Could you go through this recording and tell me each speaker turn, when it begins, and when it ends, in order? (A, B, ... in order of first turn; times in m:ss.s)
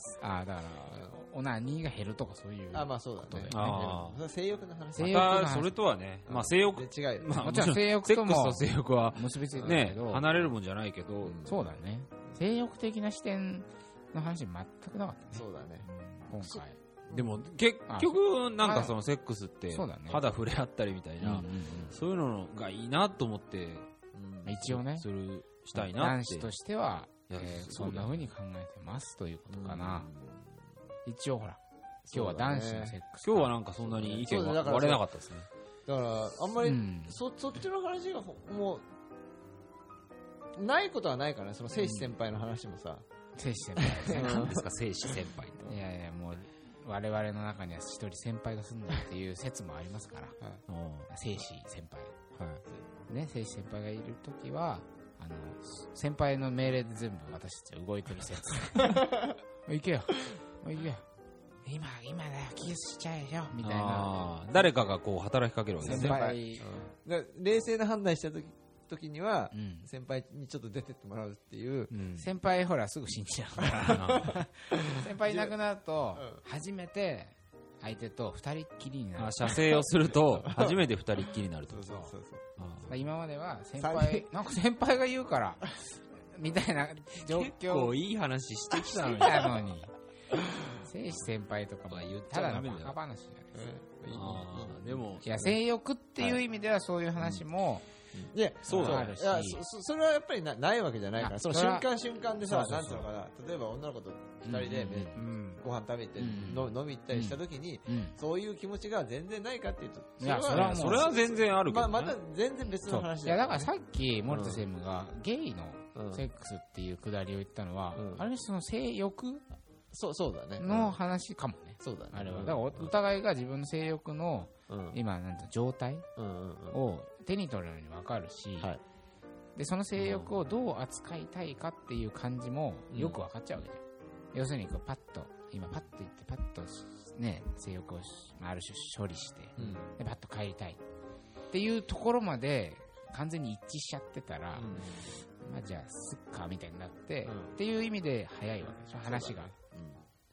0:00.2-0:03.9 A
0:02.7-0:05.2 B
0:03.5-0:04.2 C
0:05.0-0:05.8 A
0:05.0-0:11.4 C
0:06.3-0:07.4 B
0:07.3-0:10.3 A
0:09.6-0:09.8 B
0:11.2-0:11.7 B
0:11.4-0:15.4 A
0:15.3-0:15.9 B
0:15.8-0:16.5 C
0:16.3-0:16.8 A
0:16.4-0:17.4 B
0:17.1-0:23.9 C
0:17.9-0:18.9 A
0:19.7-0:20.3 A
0:21.2-0:22.0 A
0:24.1-0:24.6 B
0:24.4-0:25.1 A
0:24.6-0:26.5 C
0:25.7-0:30.1 A
0:27.3-0:28.2 C
0:29.5-0:30.6 B
0:31.0-0:33.6 A
0:32.1-0:33.0 B
0:33.2-0:35.5 C
0:33.8-0:35.0 B
0:35.8-0:38.8 B
0:36.6-0:37.2 A
0:40.5-0:43.0 B
0:43.4-0:44.5 A
0:43.8-0:45.3 B
0:44.1-0:45.8 C
0:45.6-0:50.4 A
0:50.7-0:51.1 C
0:51.1-0:52.2 A
0:52.4-0:52.6 C
0:53.1-0:59.1 A
0:58.8-0:59.4 B
0:59.6-1:01.0 A
1:01.6-1:04.2 A
1:03.6-1:06.3 C
1:05.8-1:11.9 B
1:05.8-1:06.7 A
1:09.5-1:09.9 A
1:11.9-1:12.3 C
1:12.1-1:19.8 A
1:13.7-1:14.4 C
1:13.9-1:14.2 B
1:14.7-1:15.6 B
1:16.1-1:16.4 B
1:19.2-1:23.0 C
1:20.3-1:20.9 B
1:21.7-1:22.4 B
1:22.9-1:28.0 A
1:23.8-1:24.3 B
1:27.1-1:29.7 C
1:28.7-1:29.5 B
1:29.1-1:29.9 A
1:30.7-1:33.5 A
1:31.9-1:33.0 C
1:33.5-1:35.5 B
1:34.1-1:35.4 C
1:35.2-1:37.8 A
1:38.1-1:53.7 B
1:38.7-1:39.6 A
1:38.7-1:39.1 C
1:41.2-1:41.9 A
1:42.4-1:43.0 A
1:44.4-1:45.2 A
1:45.2-1:45.6 C
1:46.2-1:48.2 A
1:50.2-1:51.1 A
1:50.5-1:52.2 C
1:52.8-1:59.4 A
1:54.3-1:54.6 B
1:55.9-1:56.2 B
1:57.9-1:58.2 B
1:59.9-2:01.0 B
2:00.6-2:06.1 A
2:01.8-2:02.9 B
2:04.7-2:05.0 B
2:06.2-2:06.8 B
2:06.7-2:08.7 A
2:09.6-2:20.8 A
2:10.0-2:10.3 C
2:12.9-2:13.2 B
2:19.6-2:19.9 B
2:19.6-2:19.9 C
2:21.5-2:29.5 A
2:24.5-2:25.2 B
2:27.2-2:27.6 B
2:29.0-2:30.0 B